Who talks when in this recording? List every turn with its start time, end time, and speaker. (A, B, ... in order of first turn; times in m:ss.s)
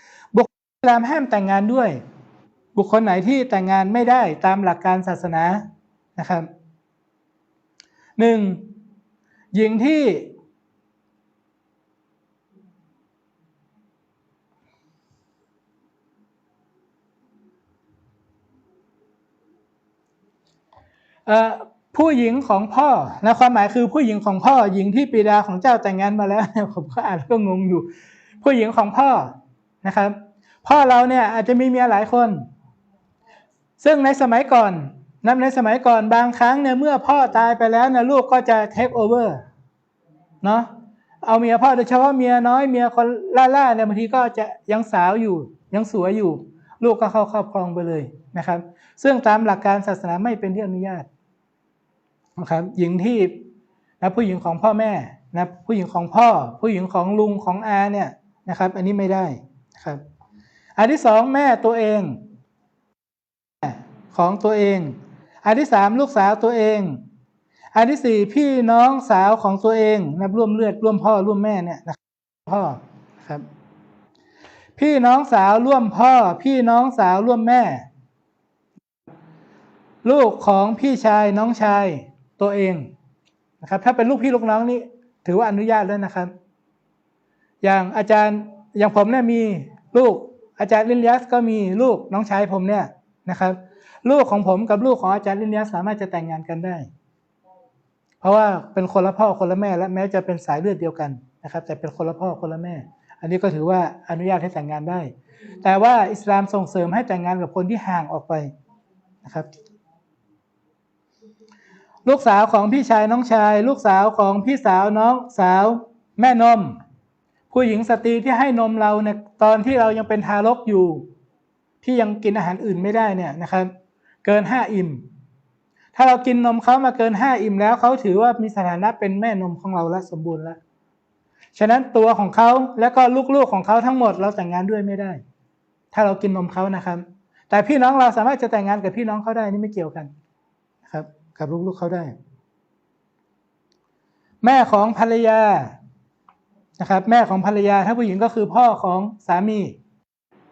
0:00.3-0:02.0 A
0:02.7-0:05.6 A
0:06.2-0:06.5 A
0:08.2-0:08.7 A
0:09.5-0:10.3 A
0:21.2-0:27.9 A
0:28.4-0:32.4 A
0:33.8-0:39.4 A
0:40.4-0:40.7 A
0:41.2-0:51.1 A
0:52.4-0:53.4 A
0:54.0-1:00.0 A
1:00.8-1:02.2 A
1:03.6-1:07.0 A
1:07.7-1:13.4 A
1:14.8-1:17.8 A
1:20.0-1:22.9 A
1:23.6-1:26.3 A
1:27.6-1:36.9 A
1:38.2-1:45.1 A
1:45.6-1:48.5 A
1:49.2-1:49.5 A
1:52.0-1:56.8 A
1:57.5-2:01.0 A
2:01.8-2:03.7 A
2:04.2-2:05.0 A
2:05.9-2:10.6 A
2:11.5-2:15.2 A
2:15.9-2:20.1 A
2:20.8-2:22.1 A
2:24.4-2:25.7 A
2:26.8-2:29.8 A